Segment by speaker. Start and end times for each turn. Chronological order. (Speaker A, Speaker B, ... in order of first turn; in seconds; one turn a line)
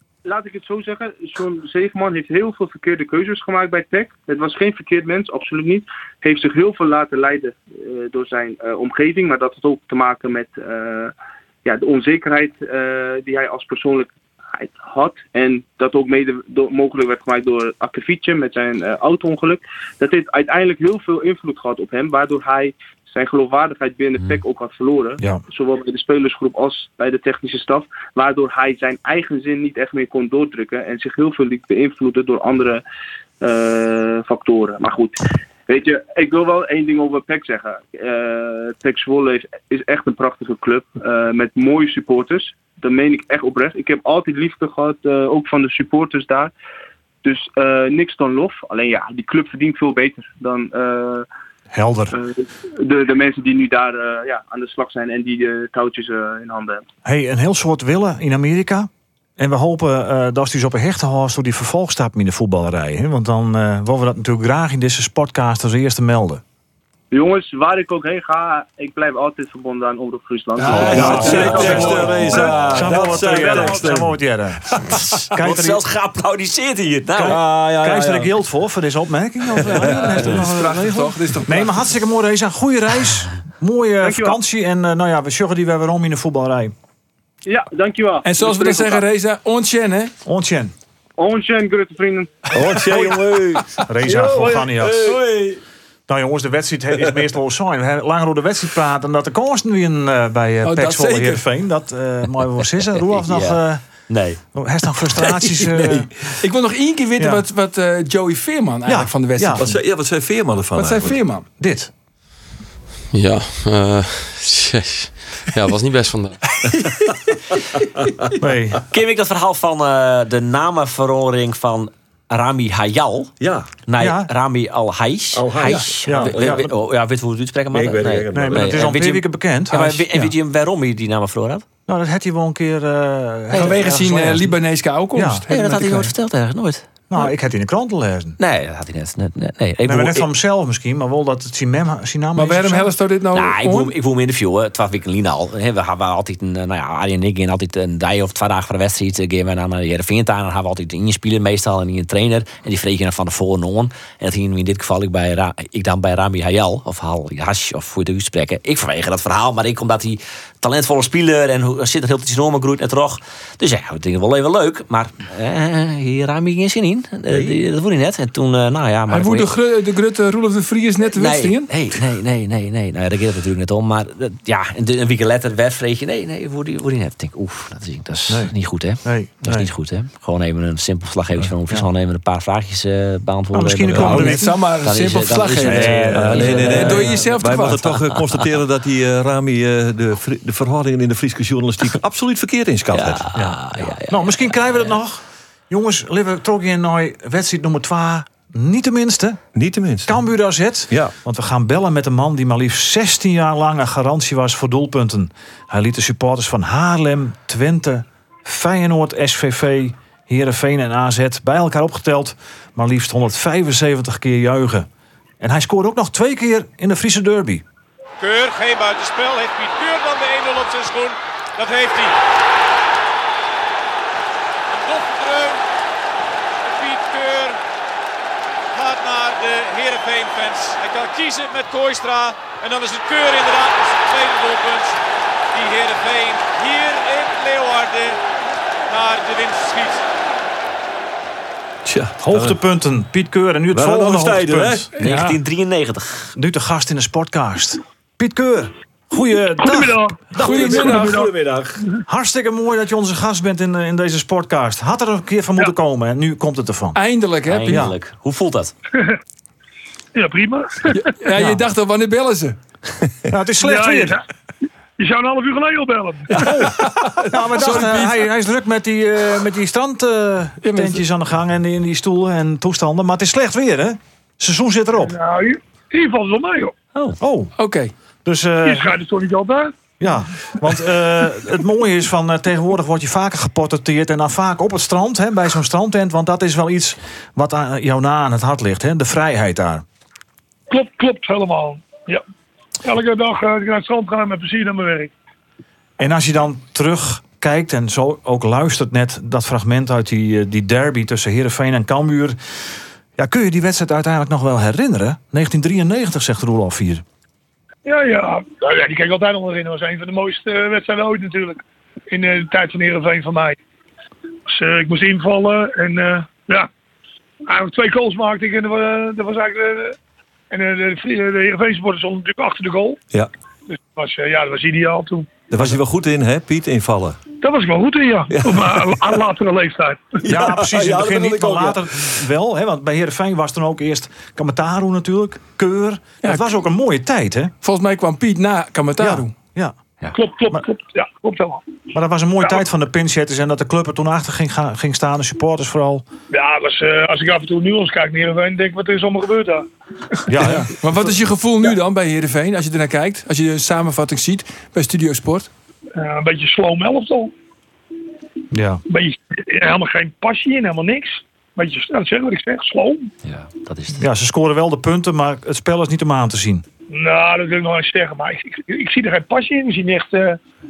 Speaker A: 0.2-11.1
Speaker A: 11.6-32.8
Speaker A: 33.4-46.5
Speaker A: 47.2-51.3
Speaker B: 51.7-52.2
Speaker A: 52.1-56.8
Speaker B: 57.0-66.4
Speaker A: 67.1-72.1
Speaker C: 70.6-72.5
Speaker B: 70.7-75.8
Speaker D: 70.7-75.1
Speaker E: 70.8-71.3
Speaker E: 74.9-77.4
Speaker B: 77.2-86.7
Speaker D: 77.2-78.3
Speaker D: 79.8-80.3
Speaker C: 79.9-81.7
Speaker A: 84.0-84.4
Speaker A: 87.5-89.0
Speaker C: 88.2-90.1
Speaker B: 90.2-90.7
Speaker A: 91.2-92.5
Speaker D: 92.5-95.6
Speaker B: 93.8-95.1
Speaker B: 96.1-106.3
Speaker C: 100.6-101.4
Speaker E: 102.9-104.4
Speaker C: 106.4-109.8
Speaker B: 107.2-107.4
Speaker B: 108.9-109.6
Speaker D: 109.6-111.2
Speaker C: 110.7-111.5
Speaker B: 111.6-111.9
Speaker F: 113.1-116.4
Speaker C: 116.5-117.0
Speaker B: 118.4-118.8
Speaker E: 118.9-123.3
Speaker D: 123.4-123.7
Speaker E: 123.9-131.6
Speaker B: 124.0-124.3
Speaker D: 125.3-126.7
Speaker B: 126.0-126.7
Speaker D: 127.7-128.8
Speaker B: 128.3-130.3
Speaker B: 131.9-134.5
Speaker E: 133.5-133.8
Speaker C: 133.5-136.1
Speaker B: 135.1-135.4
Speaker E: 135.5-137.0
Speaker B: 137.1-138.4
Speaker E: 138.4-140.3
Speaker B: 139.8-142.9
Speaker C: 142.4-143.9
Speaker E: 143.3-169.5
Speaker D: 167.3-167.6
Speaker C: 169.1-171.7
Speaker E: 171.2-188.4
Speaker B: 178.3-179.7
Speaker B: 181.4-181.9
Speaker B: 183.5-184.6
Speaker D: 183.9-184.3
Speaker C: 184.0-187.9
Speaker B: 185.6-187.0
Speaker D: 186.1-193.3
Speaker E: 192.9-195.0
Speaker B: 193.3-199.4
Speaker D: 199.5-200.2
Speaker B: 200.1-214.9
Speaker D: 200.9-201.1
Speaker B: 215.4-217.6
Speaker G: 218.2-222.1
Speaker G: 224.7-225.6
Speaker G: 226.6-227.6
Speaker G: 228.7-235.0
Speaker G: 235.5-238.2
Speaker G: 238.9-240.1
Speaker D: 241.8-242.6
Speaker B: 242.2-244.9
Speaker D: 243.7-244.9
Speaker C: 244.9-245.4
Speaker E: 245.0-246.3
Speaker B: 246.3-251.0
Speaker H: 249.6-252.0
Speaker D: 250.4-251.8
Speaker C: 250.4-251.1
Speaker B: 252.1-257.0
Speaker C: 256.9-257.9
Speaker E: 257.4-258.7
Speaker B: 257.7-257.9
Speaker H: 260.1-261.1
Speaker C: 260.9-262.6
Speaker B: 261.4-261.6
Speaker B: 263.3-264.2
Speaker H: 263.6-264.2
Speaker H: 265.0-266.6
Speaker C: 266.4-268.2
Speaker B: 266.4-275.1
Speaker C: 270.6-271.0
Speaker H: 275.0-276.7
Speaker B: 277.2-277.5
Speaker C: 277.6-277.9
Speaker B: 278.2-278.9
Speaker H: 278.6-279.7
Speaker B: 280.0-289.8
Speaker H: 290.7-292.2
Speaker H: 292.8-295.1
Speaker B: 296.0-302.6
Speaker B: 303.2-307.0
Speaker H: 307.9-313.6
Speaker H: 314.5-316.7
Speaker H: 317.5-320.0
Speaker H: 320.5-323.0
Speaker H: 323.7-325.3
Speaker D: 325.5-327.2
Speaker H: 327.4-330.2
Speaker D: 328.3-329.1
Speaker D: 330.2-332.2
Speaker B: 330.2-337.5
Speaker C: 337.6-339.3
Speaker B: 339.0-339.7
Speaker H: 340.1-341.6
Speaker B: 341.9-346.0
Speaker H: 346.3-350.3
Speaker B: 350.3-351.1
Speaker C: 350.4-355.5
Speaker H: 355.9-357.3
Speaker B: 358.5-358.8
Speaker H: 358.9-363.1
Speaker E: 363.2-364.0
Speaker B: 363.9-366.6
Speaker H: 366.9-370.4